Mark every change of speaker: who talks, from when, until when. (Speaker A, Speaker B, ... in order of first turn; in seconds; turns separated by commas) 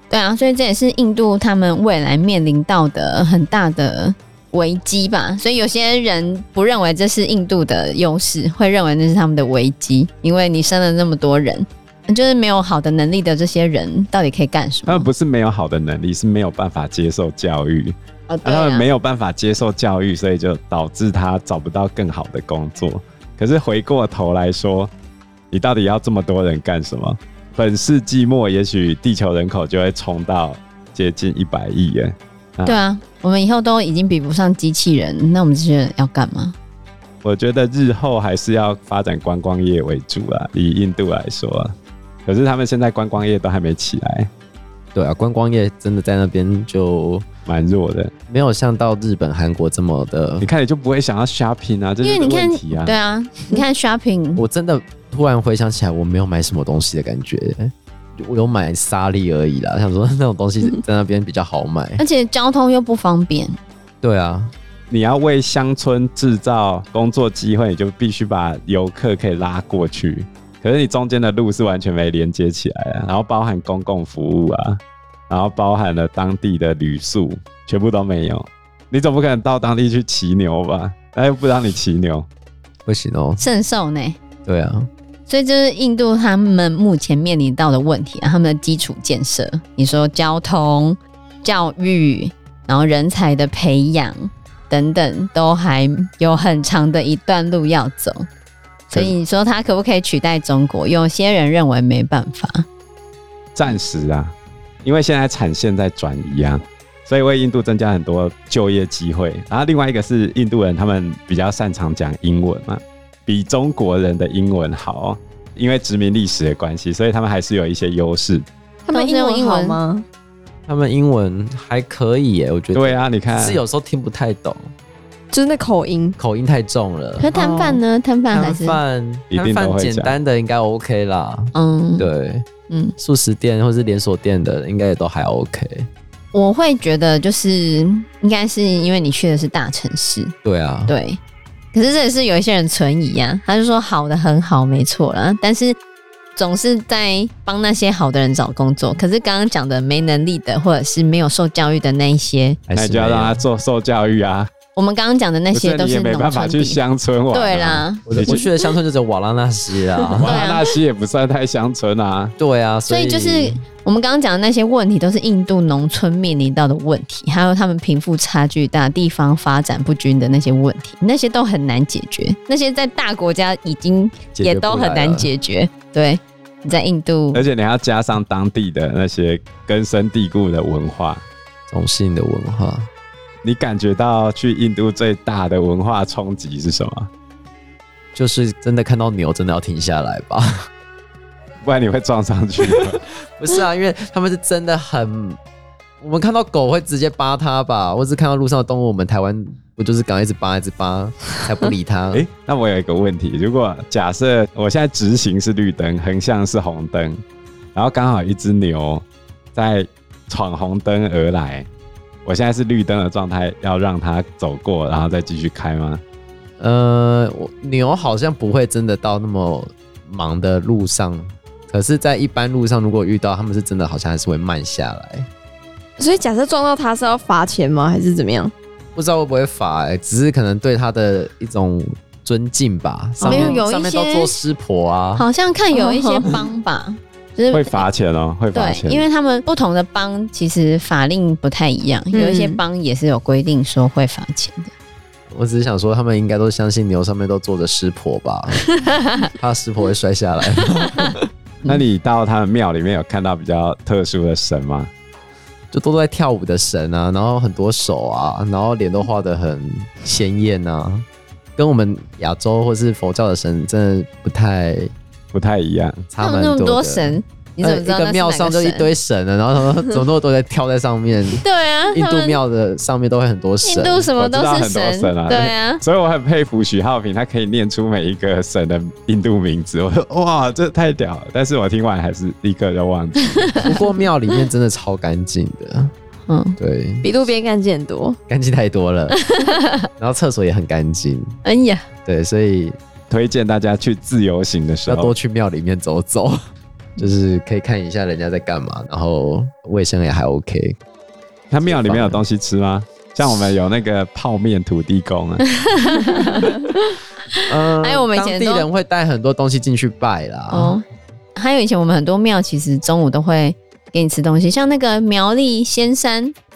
Speaker A: 0.1-15.1, Speaker B: 14.9-24.9, Speaker A: 18.3-18.9, Speaker B: 25.5-32.8, Speaker A: 32.6-36.5, Speaker B: 37.2-41.8, Speaker B: 42.3-44.3, Speaker C: 45.0-47.3, Speaker B: 47.5-48.1, Speaker C: 48.3-50.5, Speaker B: 50.4-52.9, Speaker A: 52.0-54.4, Speaker C: 54.4-62.0, Speaker A: 62.0-63.6, Speaker C: 64.0-64.5, Speaker B: 64.9-82.3, Speaker C: 82.9-83.4, Speaker A: 83.4-84.2, Speaker C: 84.5-84.9, Speaker A: 85.3-98.3, Speaker A: 98.9-102.7, Speaker B: 103.5-118.5, Speaker D: 118.9-120.1, Speaker A: 118.9-119.8, Speaker C: 120.7-124.7, Speaker B: 122.8-123.6, Speaker D: 125.3-126.2, Speaker C: 126.2-127.3, Speaker A: 127.2-128.8, Speaker D: 127.3-127.8, Speaker C: 128.3-132.5, Speaker B: 129.3-130.1, Speaker A: 131.6-132.1, Speaker A: 132.7-132.9, Speaker C: 133.0-135.9, Speaker A: 136.3-140.3, Speaker C: 140.4-140.9, Speaker A: 140.9-141.2, Speaker A: 141.7-145.8, Speaker A: 146.4-152.6, Speaker C: 152.7-153.4, Speaker B: 152.8-154.5, Speaker A: 154.8-156.8, Speaker B: 155.5-158.4, Speaker A: 157.3-158.1, Speaker C: 158.1-160.4, Speaker B: 160.2-162.3, Speaker A: 160.2-160.6, Speaker C: 162.4-163.6, Speaker A: 162.9-177.4, Speaker C: 174.3-175.3, Speaker B: 177.3-181.2, Speaker C: 181.7-182.9, Speaker B: 183.4-187.1, Speaker C: 188.2-190.7, Speaker B: 191.6-193.1, Speaker C: 193.4-195.4, Speaker C: 196.0-202.2, Speaker B: 202.1-207.2, Speaker B: 207.8-209.0, Speaker B: 209.6-211.7, Speaker B: 212.2-216.0, Speaker C: 216.6-225.3, Speaker D: 226.0-228.5, Speaker C: 228.9-235.2, Speaker D: 233.2-233.6, Speaker A: 233.2-234.3, Speaker A: 235.2-237.9, Speaker D: 235.7-236.4, Speaker B: 237.5-239.1, Speaker A: 238.5-244.7, Speaker D: 242.1-242.6, Speaker C: 245.3-248.7, Speaker C: 249.2-251.2, Speaker B: 251.7-254.9, Speaker C: 255.7-261.1, Speaker C: 261.6-264.9, Speaker B: 265.3-266.1, Speaker C: 266.1-274.1, Speaker A: 266.2-268.9, Speaker A: 271.4-272.4, Speaker A: 273.6-275.8, Speaker B: 274.2-283.7, Speaker C: 283.6-285.9, Speaker A: 286.3-286.6, Speaker C: 286.6-287.1, Speaker D: 287.0-288.2, Speaker C: 288.3-289.2, Speaker A: 289.3-289.9, Speaker C: 290.0-291.4, Speaker A: 291.4-291.9, Speaker C: 292.1-292.8, Speaker B: 293.1-295.1, Speaker C: 294.9-296.4, Speaker C: 297.0-300.8, Speaker B: 301.5-305.4, Speaker C: 301.6-302.2, Speaker A: 305.6-306.5, Speaker A: 307.4-308.7, Speaker C: 307.5-310.8, Speaker A: 310.5-310.8, Speaker A: 311.4-316.4